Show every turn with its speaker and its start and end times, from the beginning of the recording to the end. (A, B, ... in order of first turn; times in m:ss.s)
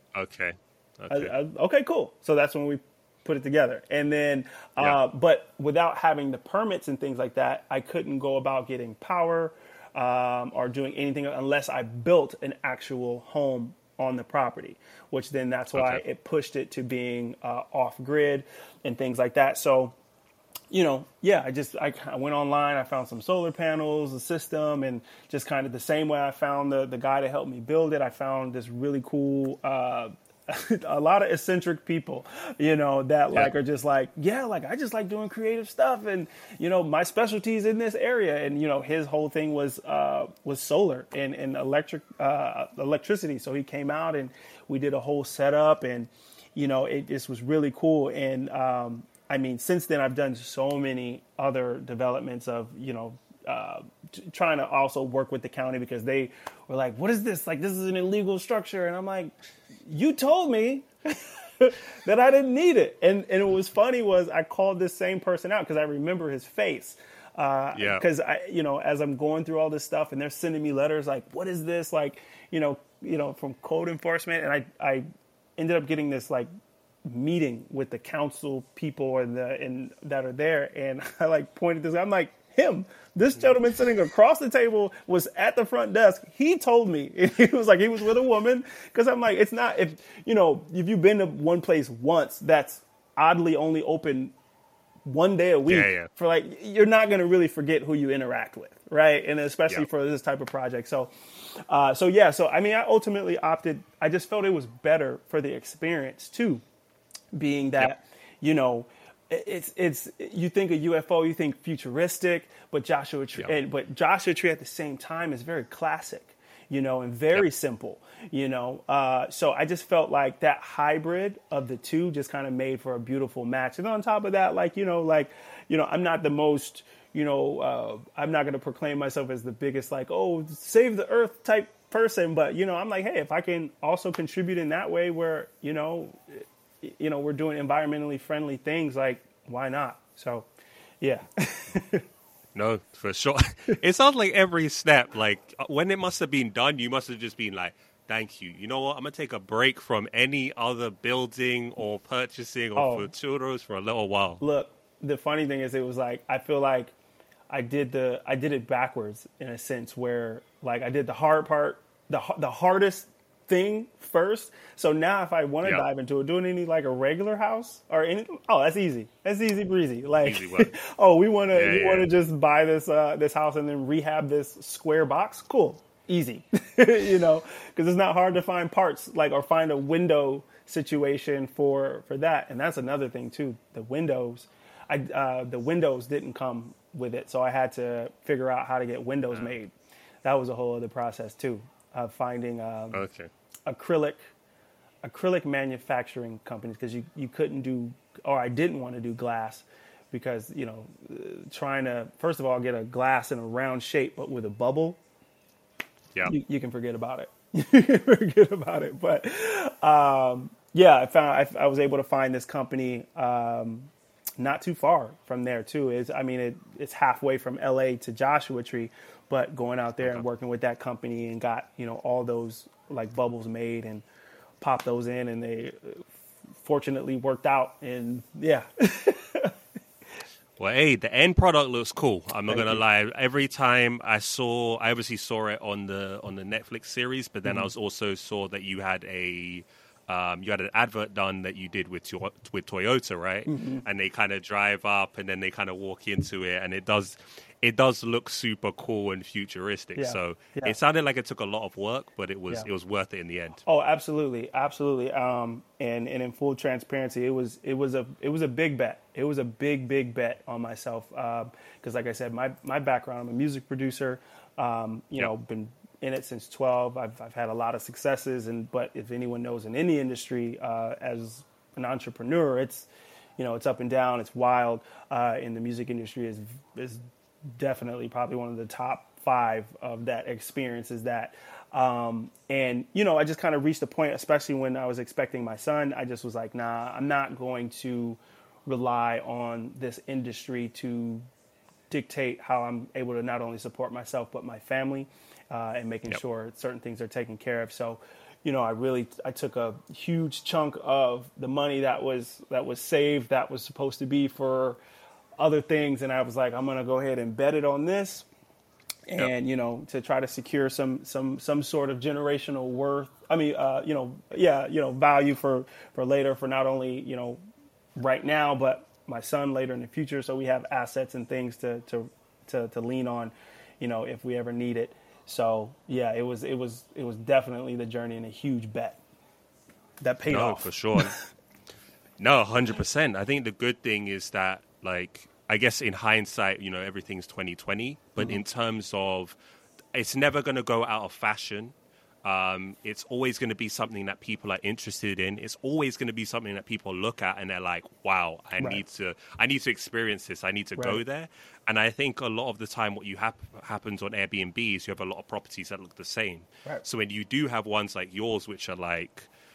0:00.1-0:01.3 A
0:01.1-0:20.0 B
0:15.7-0:16.0 A
0:20.7-0:59.3 B
0:59.9-1:15.1 B
1:07.8-1:08.0 A
1:15.6-1:16.5 B
1:17.1-1:34.3 B
1:35.1-1:46.6 B
1:35.7-1:36.1 A
1:47.3-2:20.5 B
2:21.0-2:22.0 B
2:22.5-2:34.4 A
2:32.8-2:33.1 B
2:34.4-2:36.9 B
2:37.5-3:13.0 B
2:50.2-2:50.7 A
2:51.5-2:52.1 A
3:12.9-3:13.3 A
3:13.7-3:14.2 B
3:15.0-3:25.0 B
3:26.2-3:44.1 B
3:44.6-3:46.0 B
3:46.6-3:49.5 B
3:50.6-4:13.6 A
3:52.5-3:52.8 B
3:57.4-3:57.7 B
4:03.5-4:03.8 B
4:10.0-4:10.8 B
4:13.7-4:37.0 B
4:37.6-4:51.2 B
4:51.9-5:04.8 B
5:05.4-5:08.3 B
5:09.1-5:17.4 B
5:18.0-5:29.0 B
5:30.0-5:31.2 B
5:30.3-5:31.2 A
5:32.2-5:39.4 A
5:39.9-5:59.3 A
5:50.8-5:51.0 B